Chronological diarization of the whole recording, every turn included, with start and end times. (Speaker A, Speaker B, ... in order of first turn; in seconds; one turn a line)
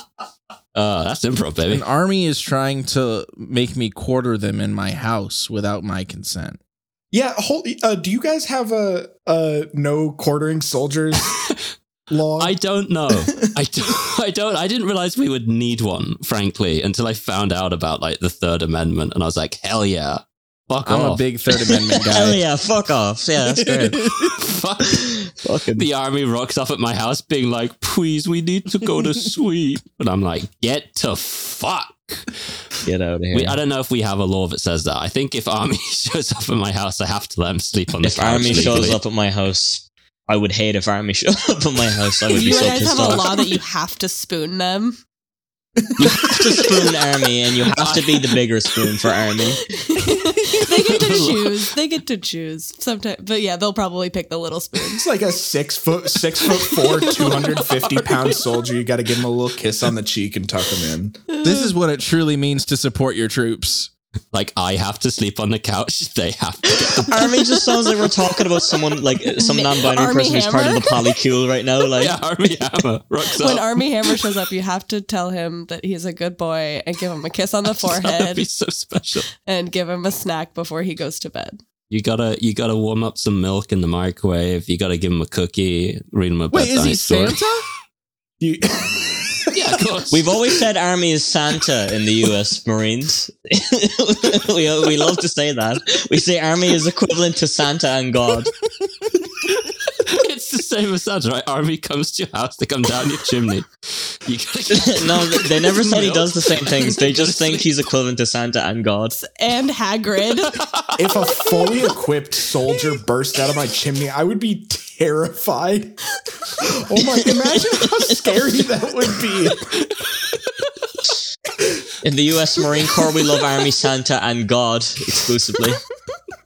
Speaker A: 0.7-1.8
Speaker B: 1.7-6.6
Speaker C: 7.1-11.3
Speaker A: 11.3-11.6
Speaker C: 12.1-12.5
Speaker A: 12.4-21.3
Speaker B: 20.8-22.4
Speaker D: 22.1-24.1
Speaker B: 23.6-24.3
Speaker A: 24.4-25.2
Speaker D: 24.8-25.9
Speaker A: 25.7-32.3
Speaker D: 32.8-33.6
Speaker A: 33.3-39.0
Speaker D: 38.0-43.5
Speaker E: 42.3-45.0
Speaker C: 45.8-46.5
Speaker D: 46.0-49.6
Speaker A: 47.8-48.2
Speaker E: 49.9-55.0
Speaker A: 50.6-51.7
Speaker C: 54.9-61.2
Speaker E: 56.8-57.6
Speaker E: 61.3-61.7
Speaker B: 61.4-63.9
Speaker A: 64.3-67.1
Speaker D: 67.0-72.2
Speaker E: 69.4-70.9
Speaker A: 72.0-74.3
Speaker E: 73.3-78.5
Speaker A: 77.7-79.3
Speaker E: 79.4-81.6
Speaker A: 81.9-87.4
Speaker B: 86.5-87.6
Speaker C: 88.4-89.8
Speaker A: 89.5-90.3
Speaker D: 90.1-98.5
Speaker A: 99.4-107.7
Speaker D: 104.7-109.2
Speaker E: 109.2-110.6
Speaker A: 110.4-111.0
Speaker C: 111.0-116.0
Speaker C: 116.6-119.6
Speaker D: 117.4-118.3
Speaker A: 119.7-120.7
Speaker D: 122.0-125.8